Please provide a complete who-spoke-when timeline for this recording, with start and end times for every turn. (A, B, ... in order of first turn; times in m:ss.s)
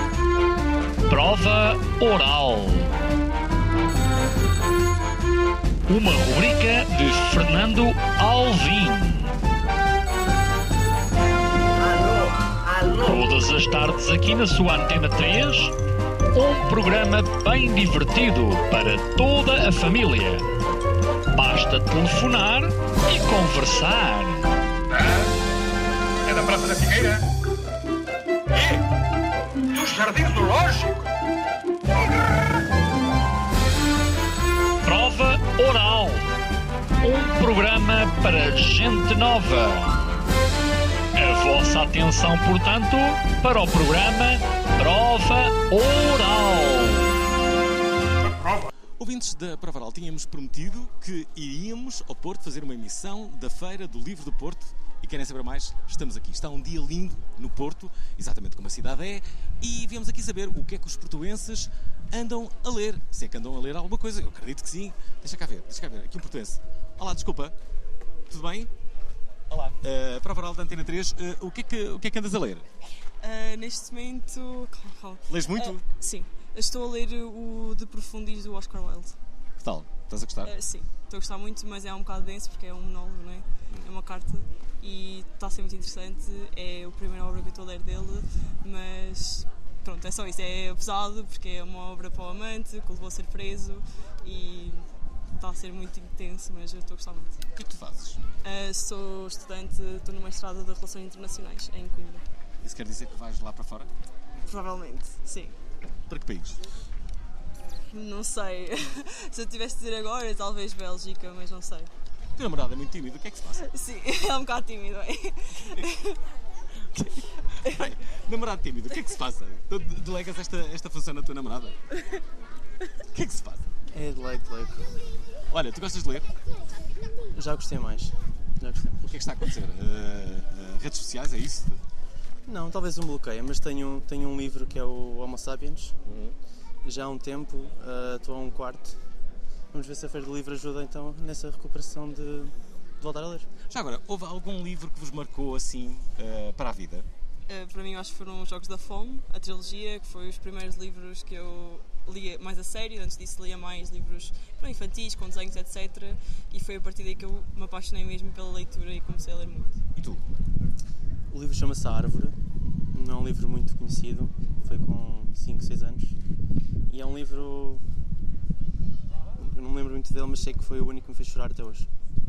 0:01.1-0:02.9 A
0:05.9-0:09.4 A
0:11.8-0:13.2 B
0:13.0-0:15.7 A
0:16.3-0:20.4 A
0:21.3-0:24.5 A
0:24.9-0:25.3 B
0:26.2-0:27.2 B
0:28.5-0:28.8 B
0:29.7-0:31.0 B
0:31.9-0:32.2 B
0:34.8-0:36.3 A
0:37.0-0:40.0 A
0:41.2-0:47.1 A
0:49.0-1:07.5 C
1:08.3-1:08.7 C
1:09.5-1:12.6 C
1:13.2-1:19.2 D
1:15.3-1:15.8 C
1:19.6-1:20.5 C
1:20.4-1:34.9 D
1:35.4-1:37.4 D
1:37.5-1:38.2 C
1:38.4-1:42.2 D
1:42.6-1:43.9 C
1:44.4-1:45.5 D
1:46.1-1:46.6 C
1:47.9-1:51.9 D
1:52.4-1:53.7 C
1:53.6-1:56.1 D
1:57.0-2:01.8 C
2:03.1-2:03.6 C
2:03.9-2:04.9 E
2:05.5-2:06.3 C
2:07.3-2:09.0 E
2:09.0-2:11.8 C
2:12.4-2:16.0 E
2:16.0-2:16.3 C
2:16.8-2:19.0 E
2:19.7-2:23.5 E
2:23.7-2:27.0 C
2:27.5-2:39.8 D
2:40.0-2:40.2 C
2:41.3-2:42.4 E
2:42.9-2:46.2 E
2:46.9-2:47.8 E
2:49.4-2:51.9 E